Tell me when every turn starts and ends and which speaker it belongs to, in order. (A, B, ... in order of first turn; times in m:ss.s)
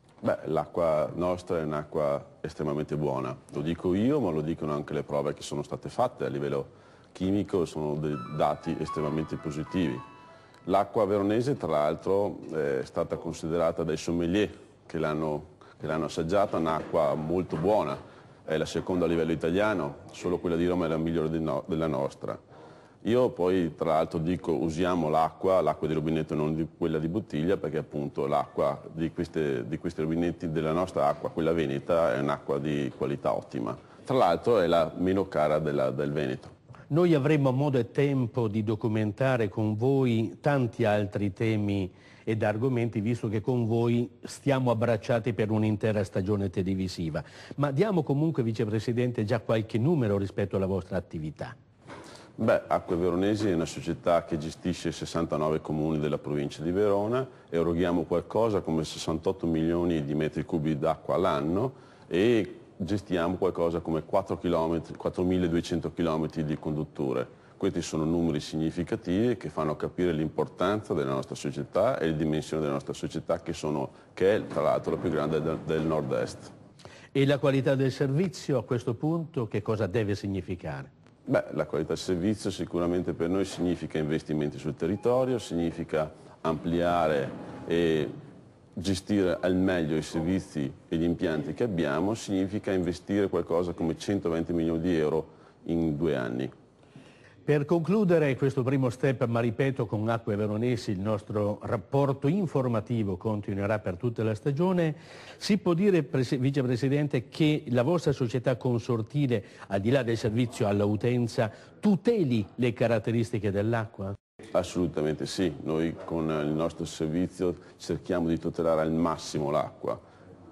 0:00.2-0:10.0 A
0:10.7-0:22.4 A
0:23.0-0:36.5 A
0:36.9-0:51.6 B
0:52.4-1:16.5 A
1:17.1-1:20.9 B
1:21.3-1:28.1 A
1:28.8-1:36.5 A
1:37.5-1:54.2 B
1:54.5-2:00.0 A